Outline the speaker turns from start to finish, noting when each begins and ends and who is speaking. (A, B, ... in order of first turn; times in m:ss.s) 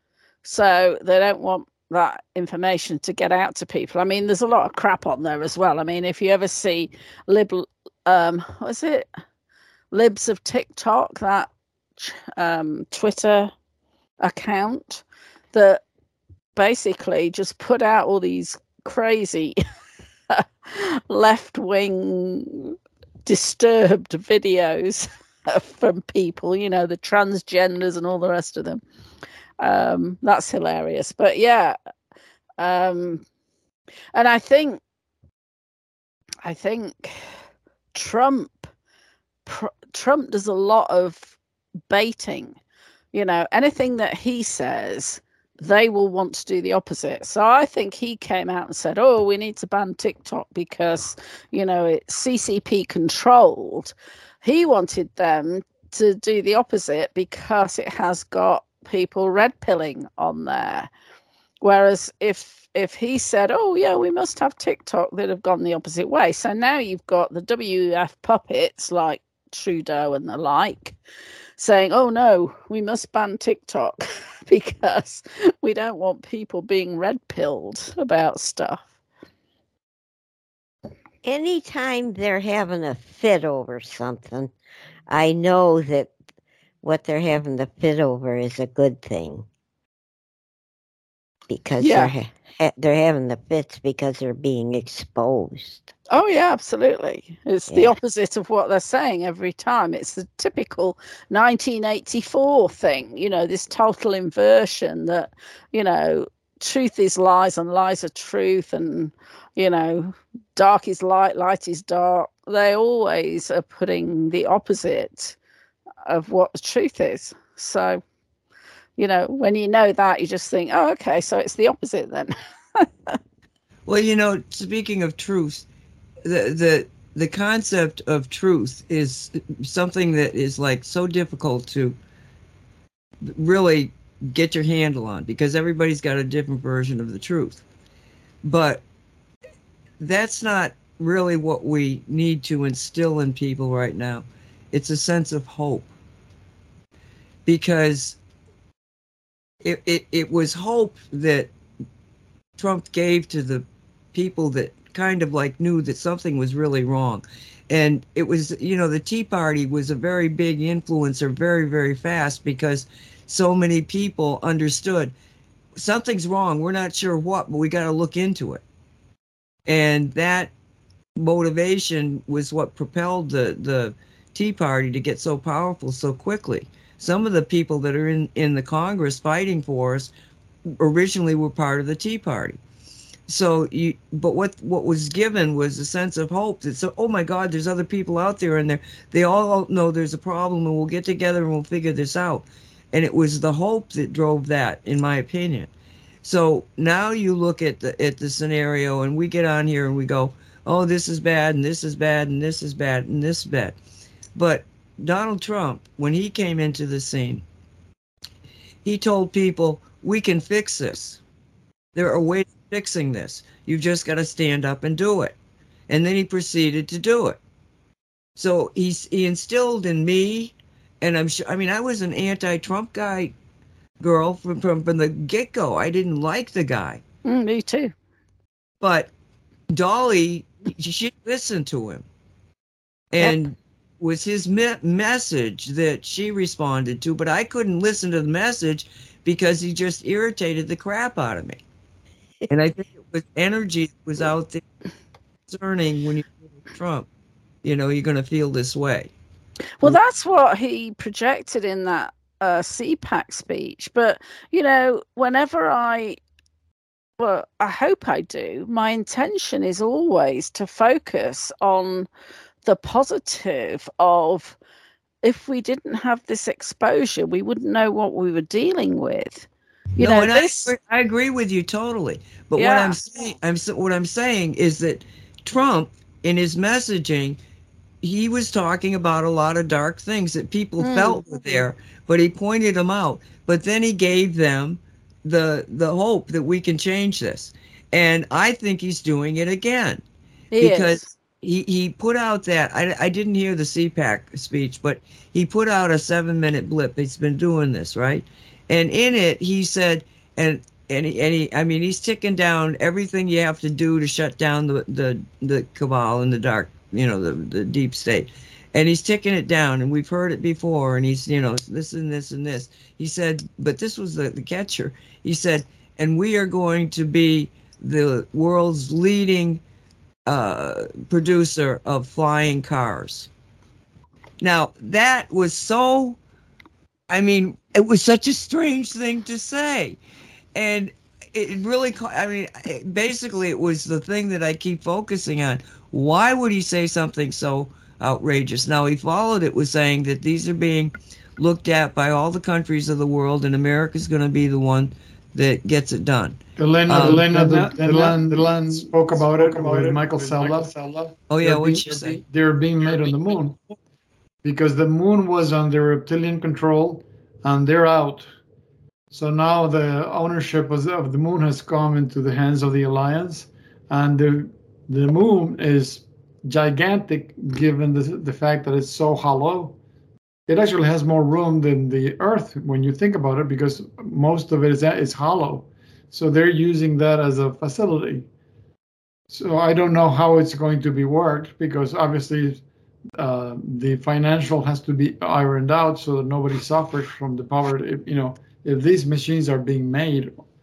0:00.4-0:09.1 A
0:09.9-0:13.5 A
0:14.2-0:15.8 A
0:16.6-0:19.6 A
0:20.3-0:22.7 A
0:23.3-0:28.8 A
0:29.6-0:31.7 A
0:32.6-0:33.2 A
0:34.1-0:34.8 A
0:36.4-0:37.2 A
0:37.9-0:38.7 A
0:39.4-0:41.4 A
0:41.9-0:42.6 A
0:43.1-1:00.9 A
1:01.6-1:11.0 A
1:11.6-1:18.9 A
1:21.2-1:24.5 B
1:25.1-1:26.1 B
1:26.8-1:29.4 B
1:31.5-1:35.9 B
1:31.8-1:32.1 A
1:36.1-1:55.4 A
1:37.7-1:37.9 B
1:56.0-1:58.0 A
1:59.0-2:03.2 A
2:03.9-2:05.6 C
2:06.2-2:12.0 C
2:13.2-2:17.6 C
2:18.4-2:18.8 C
2:20.0-2:25.9 C
2:27.4-2:28.2 C
2:29.6-2:31.5 C
2:32.6-2:45.1 C
2:45.8-2:48.6 C
2:49.7-2:50.5 C
2:51.2-3:00.1 C
3:00.6-3:02.6 C
3:03.3-3:15.7 C
3:16.2-3:23.7 C
3:24.4-3:27.4 C
3:28.8-3:31.2 C
3:31.9-3:35.4 C
3:35.9-3:37.4 C
3:38.4-3:43.3 C
3:44.0-3:47.0 C
3:47.2-3:47.9 A
3:48.8-3:49.1 C
3:49.7-3:52.0 C
3:53.1-4:01.6 C
4:02.5-4:04.6 C
4:05.5-4:07.1 C
4:07.6-4:09.1 C
4:09.8-4:16.2 A
4:17.2-4:22.1 A
4:22.6-4:24.6 A
4:25.2-4:30.7 A
4:30.0-4:37.4 C
4:32.6-4:33.0 A
4:38.0-4:50.0 C
4:40.8-4:41.6 A
4:50.5-4:51.1 A
4:50.6-5:19.6 C
5:20.3-5:23.3 C
5:24.4-5:26.2 C
5:27.1-5:30.0 C
5:30.6-5:47.3 C
5:46.6-5:50.7 D
5:46.9-5:51.0 E
5:51.3-5:52.2 C
5:51.4-5:53.6 D
5:54.4-5:58.3 D
5:59.1-6:09.8 D
6:10.5-6:18.3 D
6:19.3-6:22.6 D
6:23.2-6:30.4 D